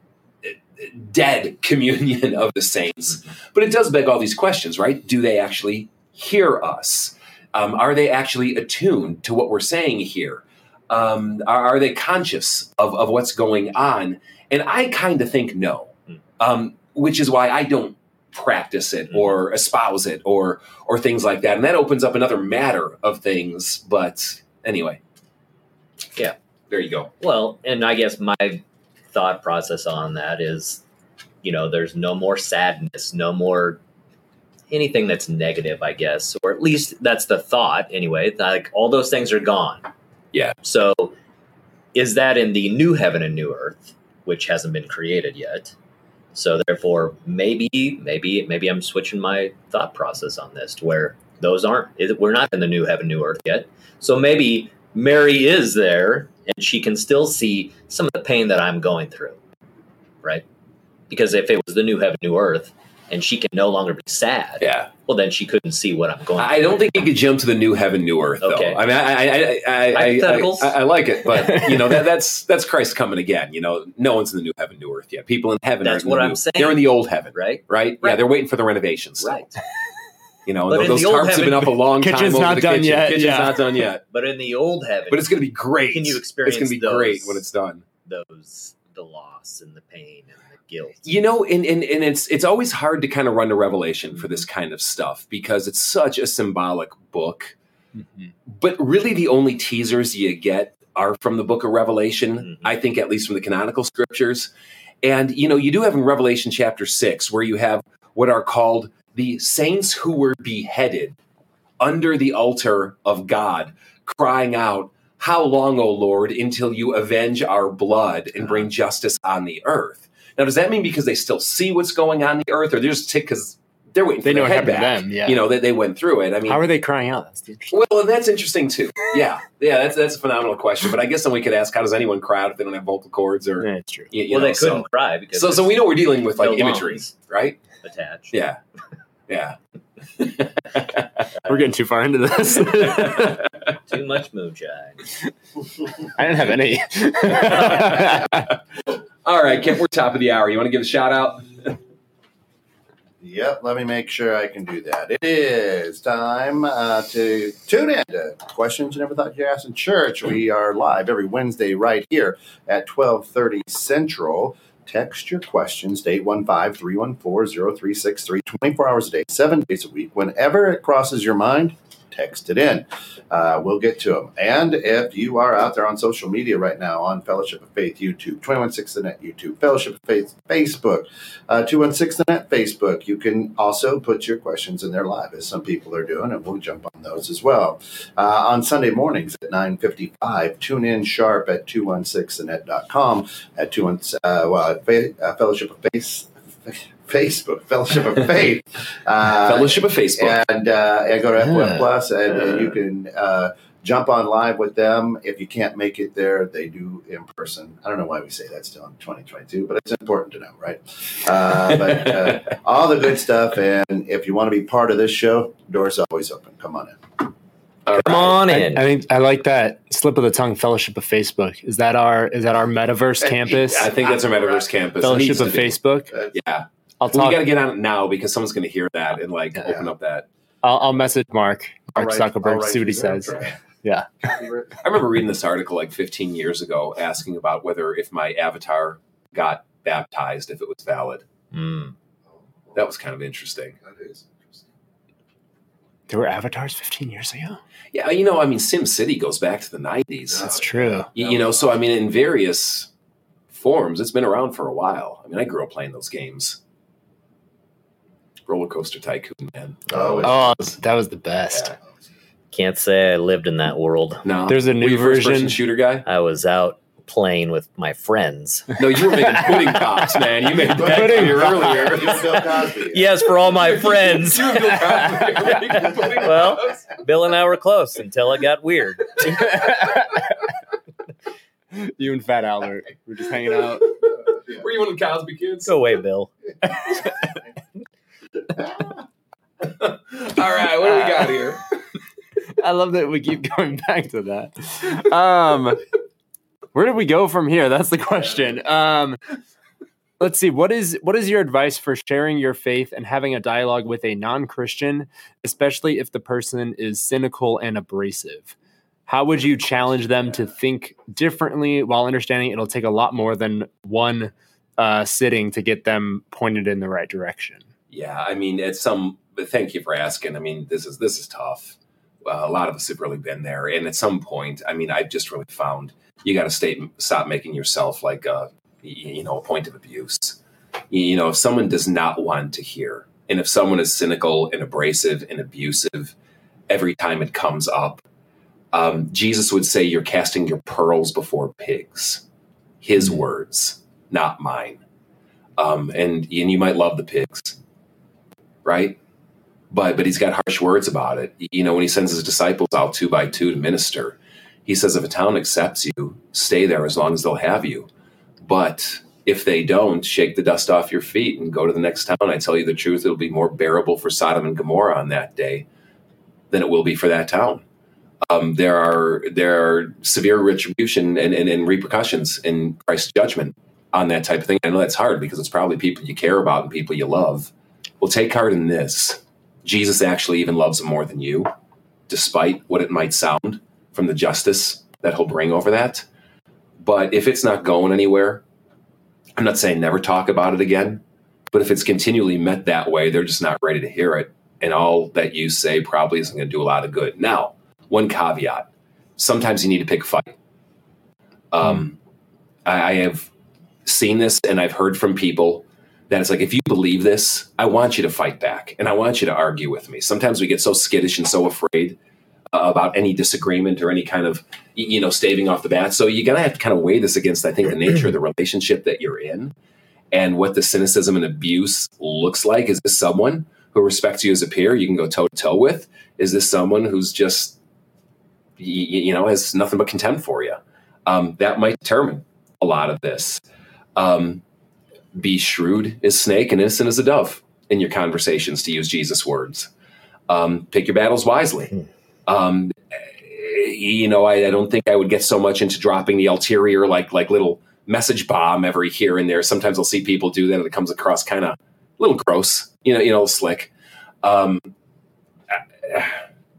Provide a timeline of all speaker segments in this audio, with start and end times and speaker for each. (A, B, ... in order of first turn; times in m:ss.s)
0:00.4-0:25.0 A
0:26.7-0:27.1 A
0:27.2-0:30.8 B
0:31.4-0:33.8 B
0:34.7-0:39.8 B
0:40.6-0:41.1 B
0:41.9-0:45.7 B
0:46.3-0:59.4 B
1:01.1-1:06.6 B
1:04.6-1:04.9 A
1:06.4-1:19.5 A
1:08.4-1:08.8 B
1:09.9-1:10.8 B
1:15.8-1:18.3 B
1:19.2-1:19.5 B
1:20.4-1:24.0 A
1:20.7-1:21.8 B
1:22.0-1:23.6 C
1:24.1-1:27.4 B
1:25.1-1:27.8 A
1:28.0-1:31.0 B
1:31.0-1:37.5 A
1:38.5-1:44.5 A
1:45.0-1:51.2 A
1:51.8-2:06.6 A
2:04.2-2:05.4 C
2:06.4-2:07.8 C
2:07.7-2:17.6 A
2:13.6-2:14.1 C
2:14.3-2:17.1 B
2:17.8-2:18.4 B
2:18.3-2:18.6 A
2:19.3-2:19.6 A
2:20.1-2:21.2 A
2:21.4-2:23.4 C
2:23.8-2:25.0 B
2:26.0-2:28.5 C
2:29.2-2:31.8 A
2:33.2-3:37.0 D
3:19.4-3:20.4 A
3:21.4-3:21.8 C
3:37.8-3:38.4 A
3:37.9-3:38.8 B
3:38.4-3:43.9 C
3:43.5-3:45.8 A
3:44.0-3:44.6 D
3:45.0-3:46.1 C
3:46.3-3:50.3 A
3:47.0-3:47.4 C
3:50.6-3:54.1 C
3:51.9-3:53.6 D
3:54.2-3:54.7 D
3:54.8-4:01.2 A
4:01.5-4:01.9 B
4:02.7-4:03.7 A
4:03.8-4:04.6 D
4:06.1-4:07.6 C
4:07.9-4:10.6 A
4:10.4-4:11.7 D
4:10.4-4:11.1 C
4:11.1-4:12.9 A
4:13.5-4:16.6 A
4:18.5-4:20.8 A
4:19.9-4:20.4 D
4:20.2-4:21.7 C
4:22.5-4:24.2 B
4:24.2-4:26.0 A
4:24.5-4:25.6 C
4:26.0-4:28.8 B
4:28.8-4:32.4 A
4:30.7-4:33.2 D
4:30.7-4:32.0 C
4:32.4-4:39.9 B
4:33.5-4:36.9 A
4:39.4-4:40.2 C
4:41.7-4:43.9 C
4:44.0-4:45.8 A
4:45.6-4:46.3 B
4:46.7-4:47.3 C
4:49.6-4:51.6 A
4:52.6-4:55.8 C
4:56.7-4:59.2 C
5:00.2-5:08.5 C
5:09.1-5:17.6 C
5:17.9-5:30.4 A
5:30.9-5:36.1 A
5:36.7-5:38.0 A
5:38.7-5:42.2 A
5:42.8-5:44.8 A
5:45.6-5:47.6 A
5:48.6-5:49.0 A
5:49.7-5:57.9 A
5:58.4-6:05.6 A
6:06.5-6:07.6 A
6:08.2-6:21.5 A
6:22.1-6:26.0 A
6:26.8-6:28.4 A
6:29.4-6:40.4 A
6:41.5-6:42.0 A
6:42.6-6:43.3 A
6:43.8-6:52.0 A
6:52.5-6:59.5 A
7:00.1-7:07.6 A
7:08.6-7:13.4 A
7:14.0-7:14.4 A
7:15.1-7:19.7 A
7:20.3-7:21.7 A
7:22.3-7:34.7 A
7:35.5-7:36.2 A